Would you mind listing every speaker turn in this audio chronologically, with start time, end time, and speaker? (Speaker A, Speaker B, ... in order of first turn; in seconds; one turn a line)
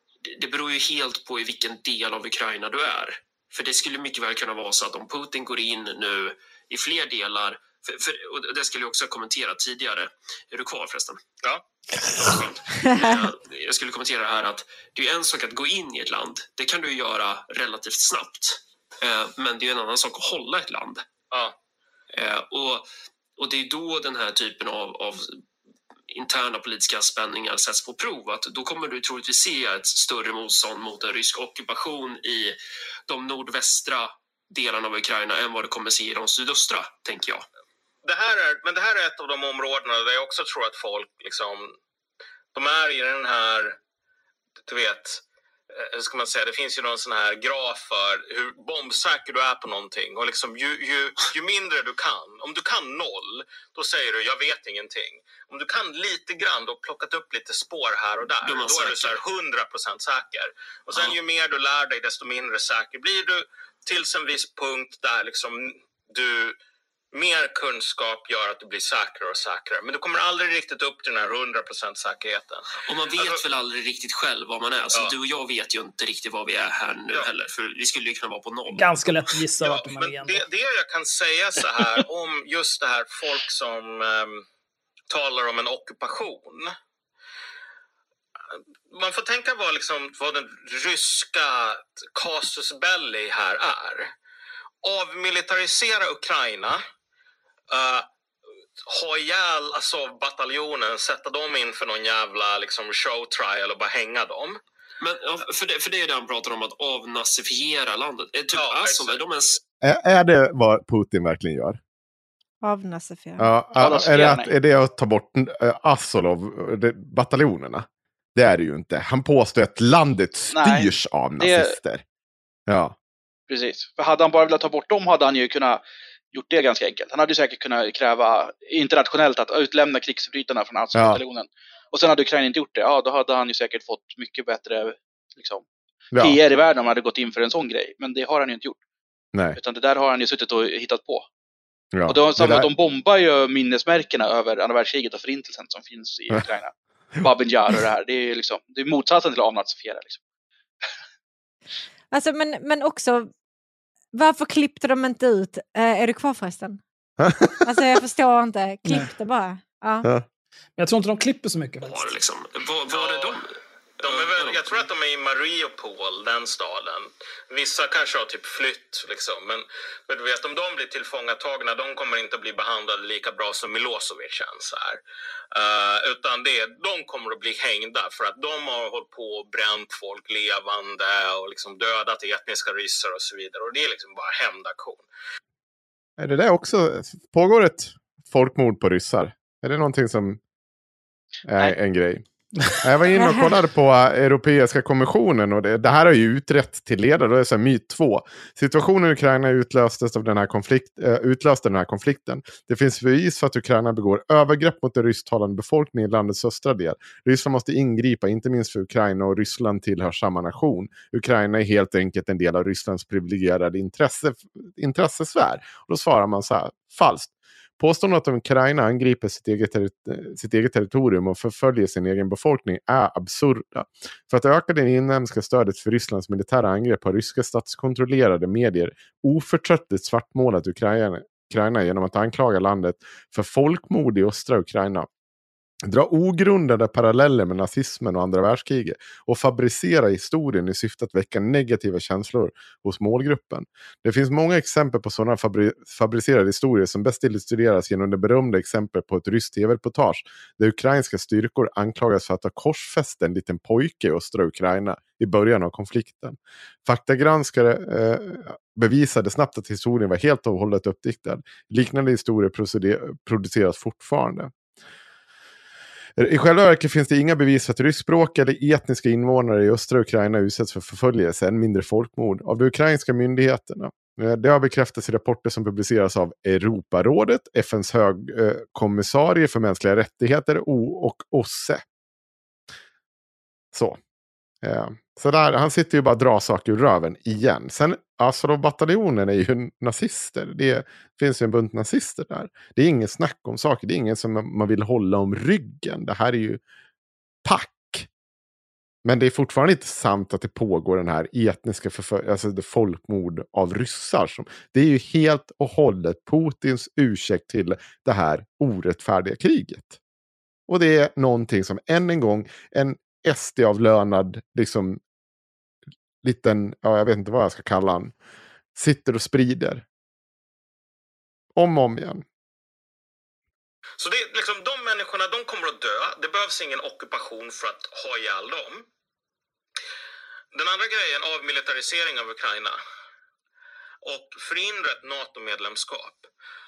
Speaker A: 0.3-11.2
Speaker A: 12.2-21.1
Speaker A: 22.1-22.8
Speaker A: 23.4-25.4
Speaker A: 26.1-32.6
Speaker A: 33.1-37.5
Speaker B: 38.0-41.7
Speaker B: 42.5-43.8
Speaker B: 44.6-66.6
Speaker A: 58.4-59.2
Speaker B: 67.1-73.4
Speaker A: 72.8-78.9
Speaker C: 78.8-80.4
Speaker B: 79.6-84.4
Speaker B: 85.1-86.7
Speaker B: 88.9-94.1
Speaker B: 94.8-96.8
Speaker B: 97.7-98.1
Speaker B: 98.8-104.6
Speaker A: 105.0-109.6
Speaker B: 108.5-109.2
Speaker D: 109.8-111.8
Speaker E: 112.6-113.5
Speaker D: 113.4-122.0
Speaker F: 113.8-114.5
Speaker F: 120.5-121.8
Speaker D: 122.7-122.9
Speaker F: 123.5-138.8
Speaker D: 130.9-131.2
Speaker D: 136.1-136.4
Speaker F: 139.6-141.3
Speaker D: 141.9-142.7
Speaker F: 142.1-150.2
Speaker E: 152.1-153.3
Speaker E: 154.1-156.8
Speaker D: 157.2-158.0
Speaker E: 157.6-160.1
Speaker C: 158.8-159.1
Speaker C: 160.8-162.1
Speaker A: 161.8-164.8
Speaker B: 162.9-163.4
Speaker B: 164.0-175.0
Speaker B: 175.5-185.1
Speaker D: 186.2-190.4
Speaker D: 191.5-235.1
Speaker E: 193.1-193.5
Speaker D: 235.8-264.5
Speaker D: 266.2-281.8
Speaker D: 283.7-284.0
Speaker D: 284.6-296.6
Speaker D: 297.4-298.1
Speaker D: 299.0-310.0
Speaker D: 310.7-315.0
Speaker D: 316.2-318.1
Speaker D: 318.7-319.8
Speaker D: 321.5-322.2
Speaker B: 324.0-328.9
Speaker B: 330.5-332.8
Speaker B: 334.0-336.3